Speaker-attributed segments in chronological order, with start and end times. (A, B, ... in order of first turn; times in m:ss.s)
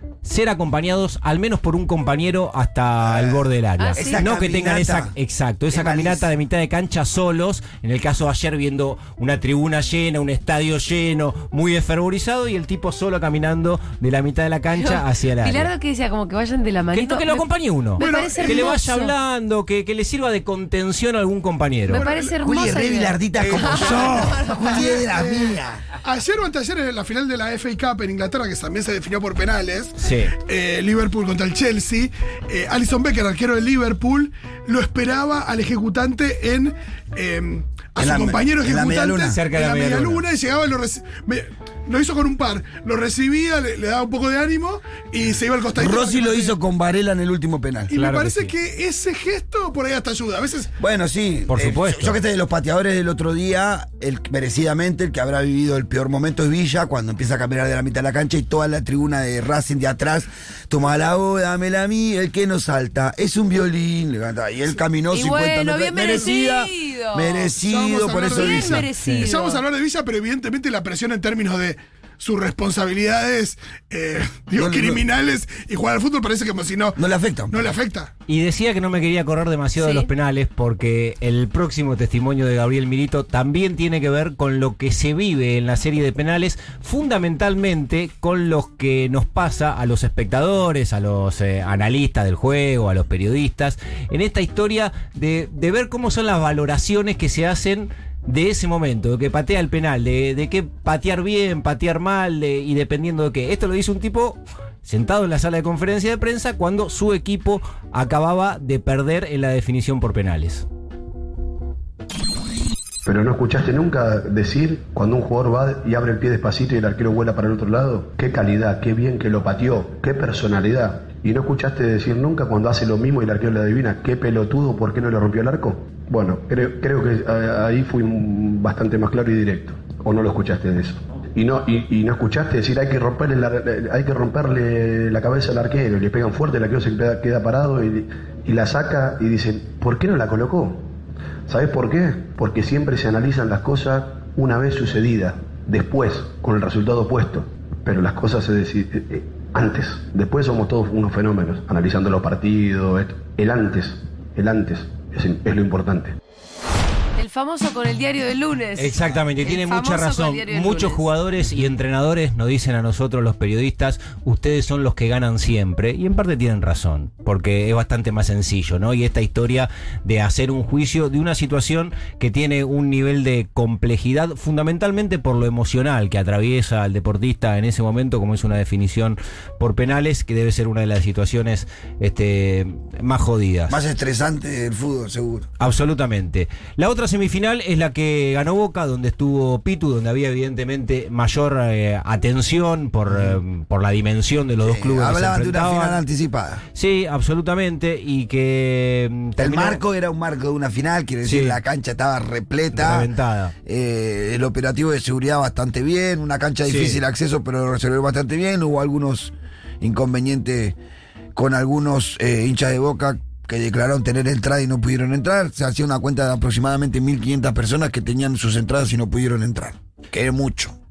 0:00.2-0:15.7 A
0:03.0-0:03.4 B
0:03.8-0:04.2 C
0:04.0-0:05.1 B
0:05.7-0:06.3 B
0:14.8-0:19.1 C
0:16.9-0:22.1 A
0:18.0-0:18.8 D
0:21.9-0:25.0 C
0:21.9-0:22.4 D
0:22.4-0:25.8 B
0:23.7-0:46.5 D
0:30.0-0:30.3 A
0:38.0-0:39.4 B
0:39.2-0:40.2 A
0:45.8-0:47.9 B
0:47.9-0:50.7 D
0:47.9-0:48.5 A
0:50.8-1:08.9 B
0:51.5-0:52.2 A
1:05.1-1:07.5 C
1:07.6-1:17.0 D
1:08.3-1:09.6 C
1:14.6-1:15.0 B
1:17.0-1:17.7 B
1:17.5-1:18.1 D
1:18.3-1:50.6 A
1:19.8-1:20.1 C
1:53.1-2:20.9 E
2:21.5-2:36.2 E
2:37.2-2:41.0 C
2:38.8-3:03.8 A
3:03.7-3:05.5 B
3:05.6-3:16.0 A
3:13.1-3:13.4 B
3:14.6-3:16.6 B
3:16.8-3:19.8 A
3:19.4-3:23.1 B
3:21.2-3:21.6 A
3:22.7-3:23.5 A
3:23.6-3:30.8 B
3:26.7-3:27.0 A
3:31.4-3:40.8 B